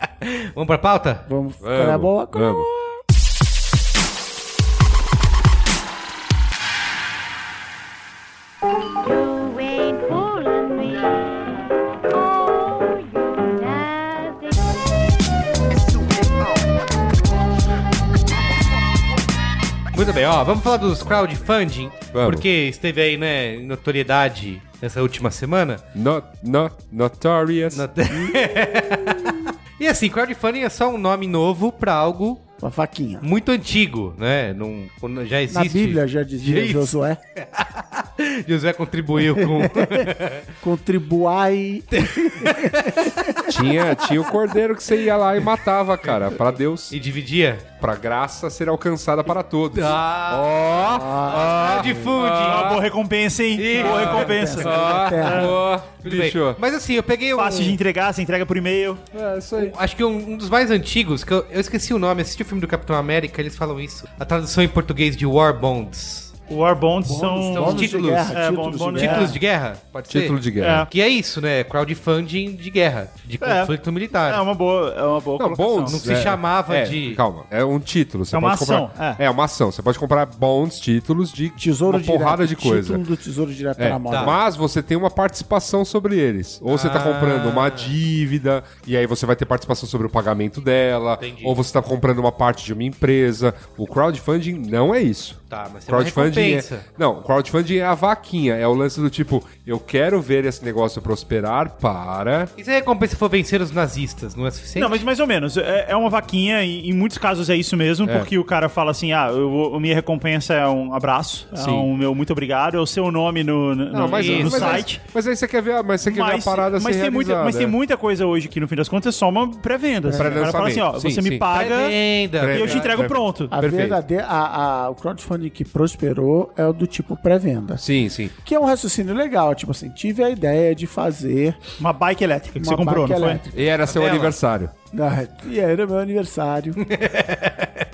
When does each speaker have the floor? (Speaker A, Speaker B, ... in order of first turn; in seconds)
Speaker A: 0.2-1.3, 19.9-25.8, 27.7-32.4, 33.2-40.5, 41.9-43.5, 46.9-47.7, 49.7-52.8, 53.6-55.0, 56.0-57.8, 59.5-66.3, 67.5-68.4, 68.9-74.4, 75.9-77.2, 84.1-84.3, 86.7-88.0, 91.2-91.6, 95.5-96.8, 102.6-105.0, 114.1-114.9, 121.5-123.0, 133.9-134.3, 136.8-137.7
Speaker B: 1.3-2.8, 28.1-29.4, 32.6-33.3, 35.5-37.2, 39.2-40.1, 40.6-43.5, 50.8-52.1, 53.8-55.6, 67.1-69.4, 81.6-84.4, 120.0-120.5, 123.5-127.8, 128.4-131.6, 132.6-133.6, 134.9-136.8
Speaker C: 1.6-2.7, 22.1-22.4, 25.9-27.8, 43.5-47.0, 47.8-52.8, 53.8-56.6, 59.1-59.7, 70.1-70.9, 75.4-83.0, 83.8-102.5, 108.0-108.3, 111.5-111.9, 113.9-117.8, 120.2-121.5, 122.4-124.0, 127.8-128.3, 133.5-134.7
Speaker D: 8.9-14.8
Speaker E: 52.4-55.5, 57.3-59.0, 66.5-69.4, 70.6-70.9, 73.4-76.2, 78.3-79.2, 104.8-115.0, 116.0-122.0, 122.5-123.6, 131.8-133.4